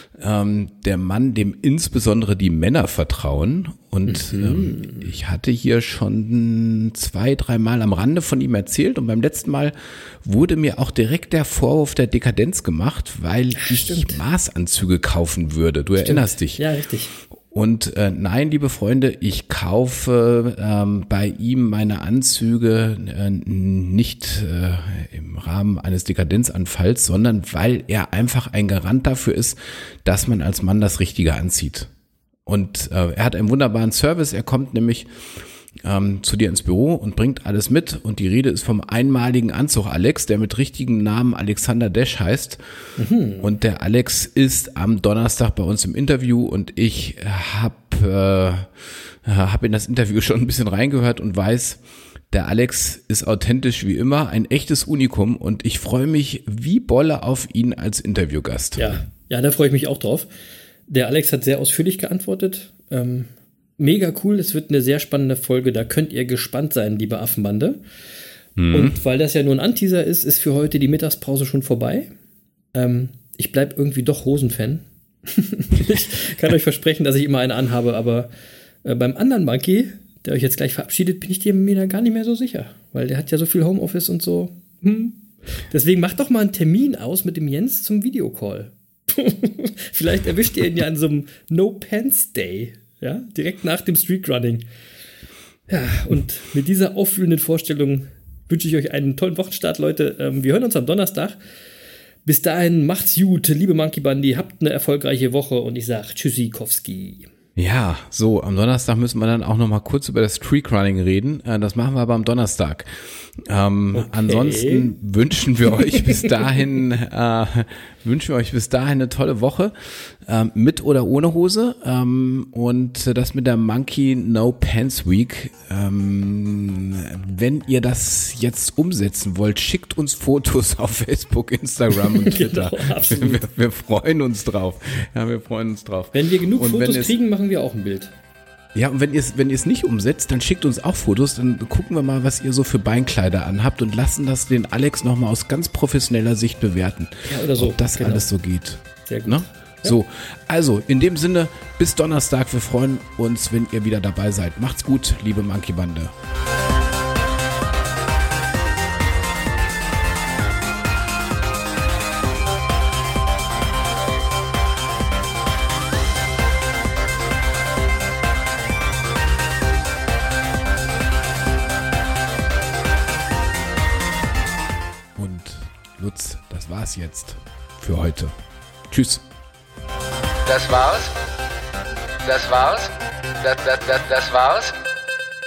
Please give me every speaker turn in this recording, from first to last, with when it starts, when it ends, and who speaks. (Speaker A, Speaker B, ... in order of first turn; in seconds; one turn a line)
Speaker A: 0.2-16.6
Speaker B: 4.1-5.1
Speaker B: 13.6-14.2
Speaker B: 16.0-17.1
Speaker A: 17.5-31.9
Speaker A: 32.5-35.1
Speaker A: 35.8-42.6
Speaker B: 43.0-43.5
Speaker A: 43.4-51.8
Speaker A: 52.3-59.0
Speaker B: 58.8-60.3
Speaker B: 60.9-67.8
Speaker A: 68.6-69.0
Speaker B: 68.7-72.1
Speaker B: 72.7-78.3
Speaker B: 78.8-94.7
Speaker B: 95.7-101.4
Speaker B: 102.2-107.3
Speaker A: 107.6-112.9
Speaker A: 113.5-137.2
Speaker B: 113.9-114.9
Speaker B: 116.0-116.3
Speaker B: 132.0-133.4
Speaker B: 136.1-138.1
Speaker A: 138.8-156.1
Speaker B: 147.3-148.3
Speaker B: 149.0-150.0
Speaker A: 175.2-178.3
Speaker A: 178.9-179.2
Speaker C: 180.5-181.1
Speaker C: 182.2-184.8